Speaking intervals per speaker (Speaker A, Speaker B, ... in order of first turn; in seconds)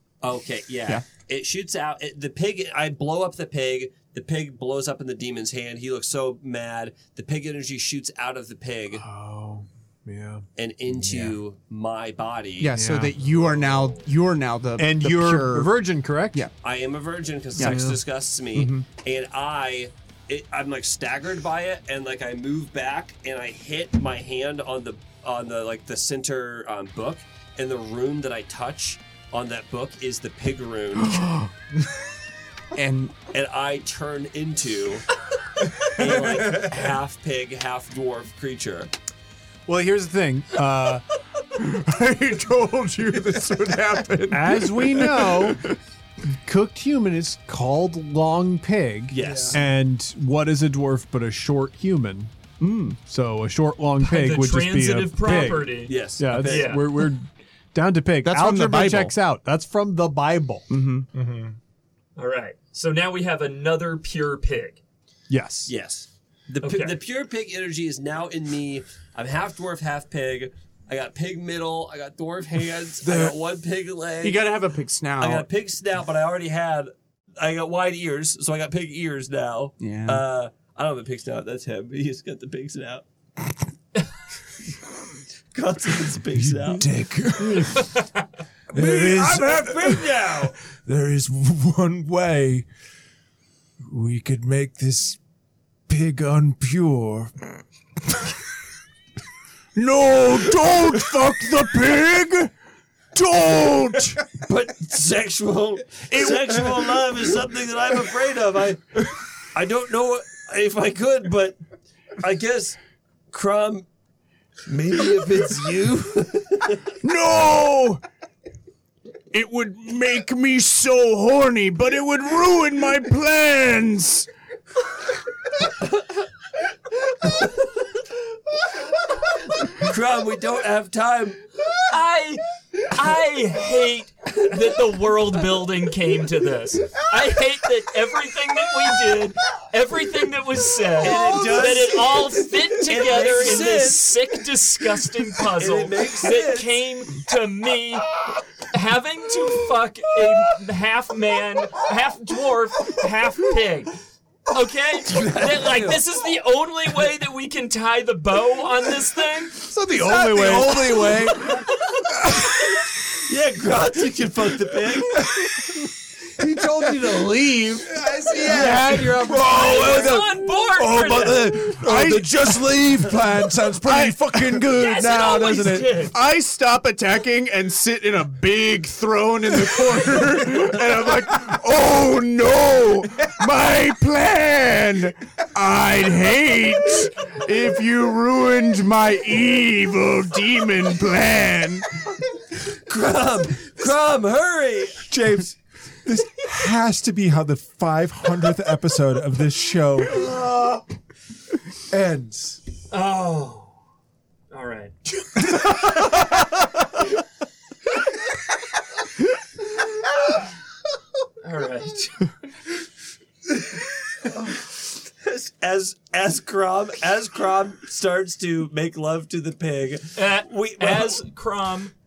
Speaker A: 0.2-9.1, 10.6-12.8, 16.6-31.3, 33.3-35.1, 35.8-38.9, 49.1-49.6, 55.3-56.8, 65.7-74.6, 75.2-83.0, 85.5-86.9, 88.7-90.5, 104.4-111.6, 112.2-112.8, 113.3-113.9, 114.7-116.9, 129.8-131.4, 141.0-144.1, 145.6-146.8, 155.1-156.0, 163.2-165.3, 192.7-195.1, 215.2-221.2
Speaker B: 8.9-10.4, 12.7-13.2, 14.8-16.5, 17.6-18.0, 39.7-41.0, 44.3-45.6, 46.4-52.3, 53.0-60.7, 65.3-65.7, 159.7-161.1
Speaker C: 11.0-11.3, 36.0-36.8, 61.1-61.6, 73.1-73.3, 86.3-88.0, 88.7-92.7, 93.9-95.2, 95.9-97.5, 167.9-176.0, 195.0-200.6, 201.9-202.6, 205.4-206.1
Speaker D: 12.6-16.5, 17.6-18.0, 18.5-18.9, 31.1-31.5, 32.8-33.2, 41.6-45.6, 49.2-49.5, 52.6-53.0, 58.2-59.1, 60.7-61.1, 74.2-75.5, 79.8-80.2, 99.8-102.5, 103.2-104.2, 106.1-106.4, 117.0-118.0, 119.3-124.3, 159.9-161.6, 166.6-169.9, 171.8-172.8, 173.7-192.0
Speaker E: 54.0-57.0, 62.2-64.8, 66.6-67.0, 131.8-148.1, 148.7-154.0, 154.5-159.7, 169.3-171.8, 174.7-176.2, 202.9-203.8, 204.5-204.9, 211.4-212.3, 220.2-221.9